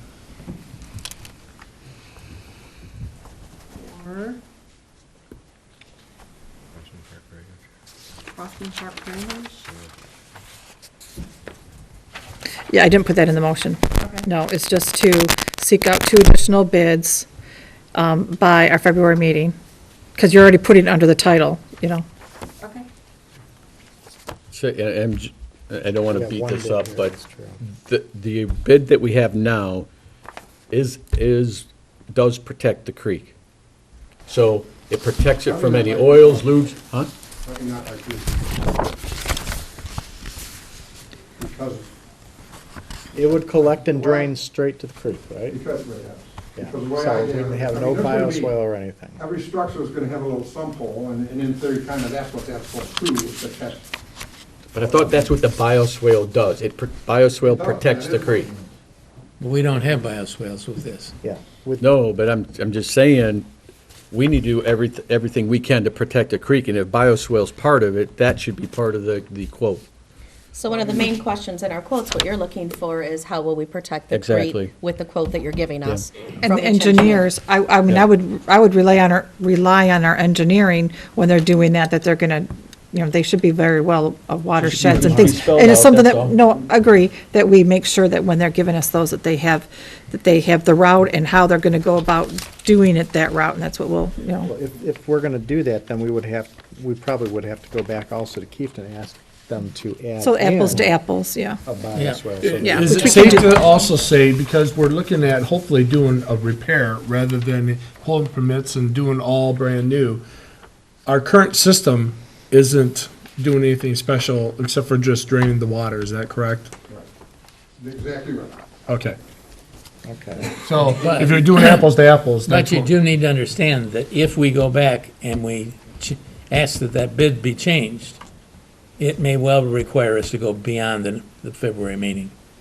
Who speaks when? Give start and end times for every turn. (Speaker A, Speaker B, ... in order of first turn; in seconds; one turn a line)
Speaker A: 3.8-4.4
Speaker B: 6.7-7.6
Speaker A: 8.3-9.7
Speaker C: 12.7-17.2
Speaker C: 17.9-19.5
Speaker C: 20.2-22.0
Speaker A: 22.6-22.9
Speaker D: 24.5-29.9
Speaker E: 26.0-27.6
Speaker D: 30.7-33.3
Speaker D: 34.3-37.1
Speaker F: 35.4-36.5
Speaker F: 37.4-39.0
Speaker F: 41.4-41.9
Speaker E: 43.1-45.6
Speaker F: 43.7-44.3
Speaker F: 45.5-48.5
Speaker E: 46.5-49.2
Speaker F: 49.2-53.8
Speaker D: 54.7-58.5
Speaker F: 54.8-55.2
Speaker F: 57.4-58.6
Speaker G: 59.4-61.1
Speaker E: 61.2-61.9
Speaker D: 61.8-63.5
Speaker D: 64.1-69.8
Speaker H: 70.5-77.3
Speaker D: 74.1-74.7
Speaker C: 76.4-94.5
Speaker D: 84.6-86.4
Speaker E: 94.4-101.0
Speaker C: 100.2-101.6
Speaker E: 101.7-103.2
Speaker G: 101.9-102.3
Speaker B: 102.4-110.2
Speaker C: 102.6-103.8
Speaker B: 111.0-116.7
Speaker F: 117.8-118.6
Speaker B: 118.9-119.2
Speaker E: 120.0-120.6
Speaker B: 120.5-122.9
Speaker G: 120.9-121.6
Speaker G: 122.5-128.2
Speaker G: 129.0-132.3